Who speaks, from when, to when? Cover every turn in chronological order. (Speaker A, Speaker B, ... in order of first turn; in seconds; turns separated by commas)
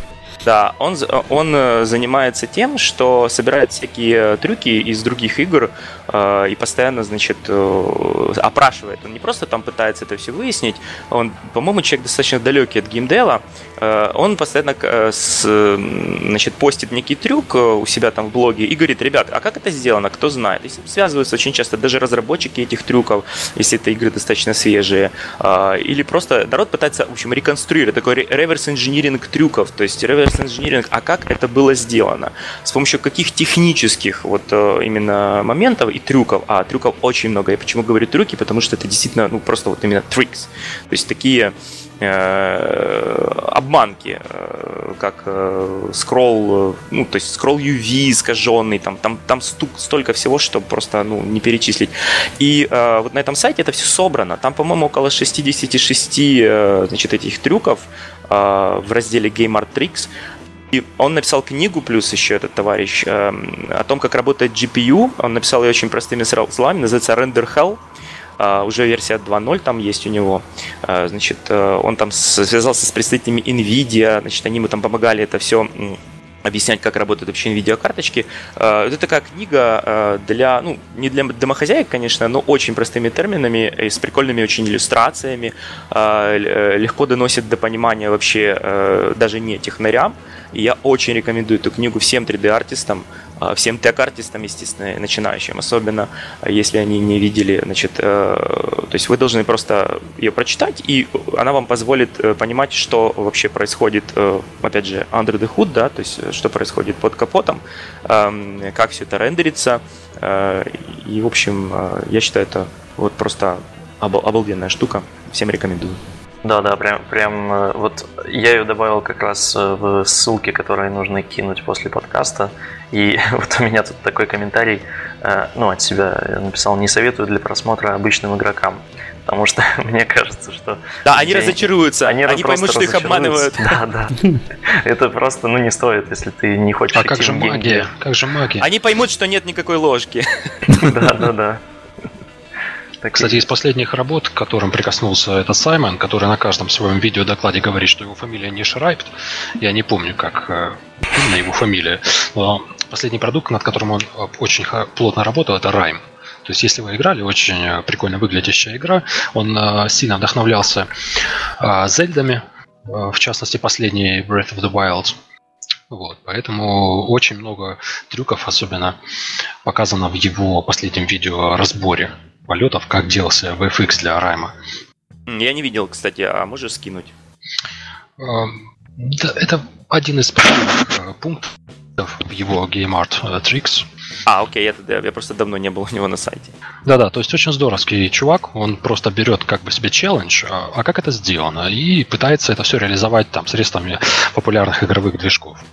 Speaker A: 0.4-60.1, Speaker A: 60.7-67.8, Speaker A: 68.4-116.0, Speaker B: 116.4-137.9, Speaker A: 131.1-133.8, Speaker C: 136.9-138.7, Speaker A: 138.6-141.1, Speaker B: 140.7-141.6, Speaker B: 143.0-143.4, Speaker C: 143.2-160.9, Speaker C: 161.6-165.2, Speaker C: 165.9-169.0, Speaker C: 169.6-174.5, Speaker A: 175.3-177.1, Speaker C: 178.2-183.9, Speaker A: 184.3-186.5, Speaker C: 186.8-195.6